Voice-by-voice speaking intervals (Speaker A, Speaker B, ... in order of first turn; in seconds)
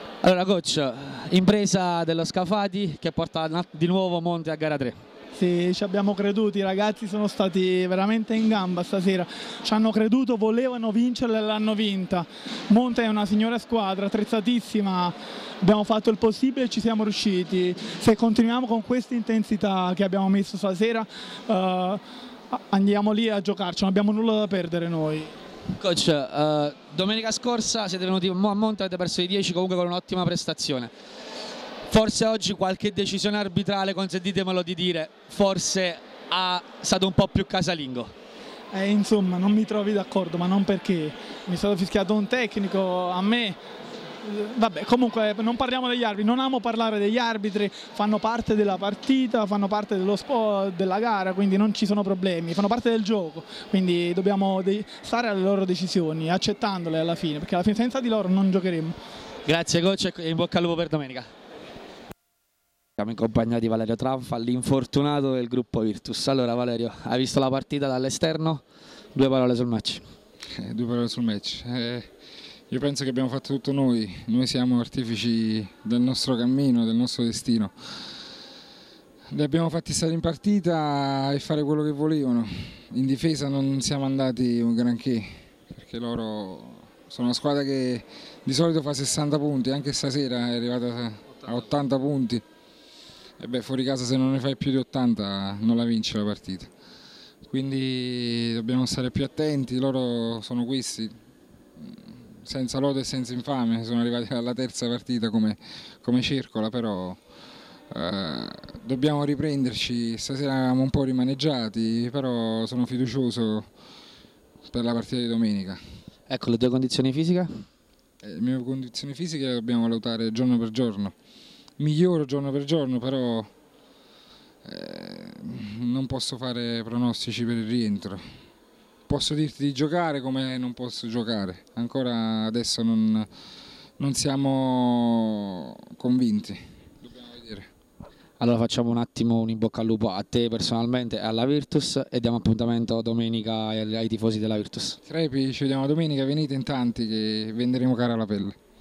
Speaker A: 0.2-5.0, 25.8-30.9, 31.9-38.1, 59.5-61.3, 63.0-68.6, 69.2-70.0, 116.3-117.5, 138.4-145.0
Speaker B: 5.3-25.3, 38.7-43.6, 44.2-59.0
Speaker C: 70.5-72.1, 72.7-77.7, 79.3-92.4, 93.4-96.7, 97.5-101.1, 101.8-107.2, 107.9-113.7, 114.7-115.8, 118.2-121.1, 121.8-123.5, 124.7-128.2, 129.1-133.3, 134.0-137.7, 145.1-148.6